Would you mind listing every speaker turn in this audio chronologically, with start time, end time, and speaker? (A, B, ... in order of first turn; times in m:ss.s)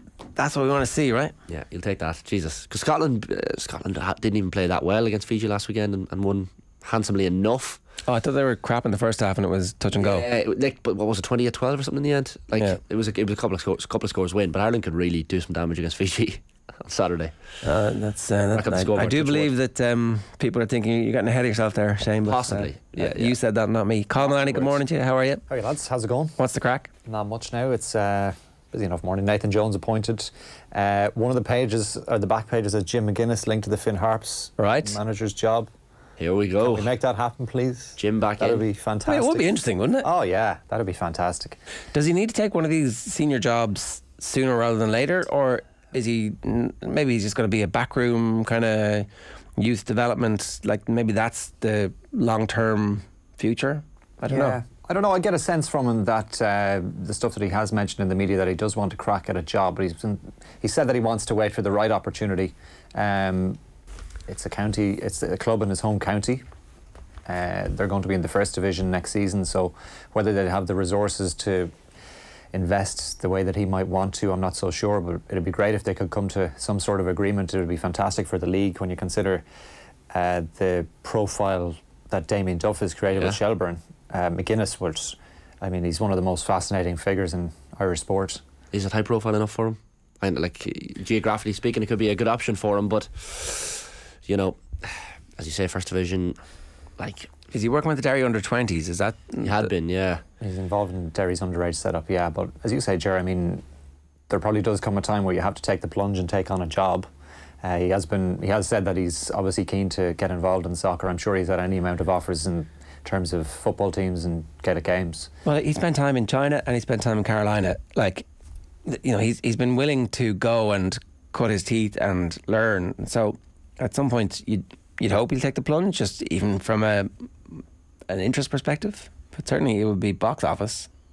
0:00.4-0:01.4 A
0:01.5-0:07.8 B
0:08.0-0:10.3 A
0:09.9-0:17.4 B
0:17.6-0:25.4 A
0:18.5-0:19.5 B
0:22.2-0:23.4 B
0:24.2-0:24.8 B
0:25.5-0:26.4 C
0:26.4-0:26.9 A
0:27.0-0:35.7 C
0:34.6-0:35.0 A
0:36.2-0:36.9 B
0:36.6-0:41.6 C
0:38.0-0:38.6 B
0:39.1-0:40.0 A
0:41.9-0:54.6 A
0:54.3-1:03.6 C
1:04.3-1:06.4 C
1:07.3-1:11.7 C
1:12.5-1:19.4 C
1:20.1-1:28.4 C
1:28.7-1:36.4 B
1:37.0-1:37.3 B
1:37.5-1:39.7 A
1:39.4-1:40.2 B
1:40.4-1:43.6 C
1:44.3-1:47.1 C
1:47.6-1:55.3 C
1:55.4-1:58.3 A
1:58.9-2:10.9 A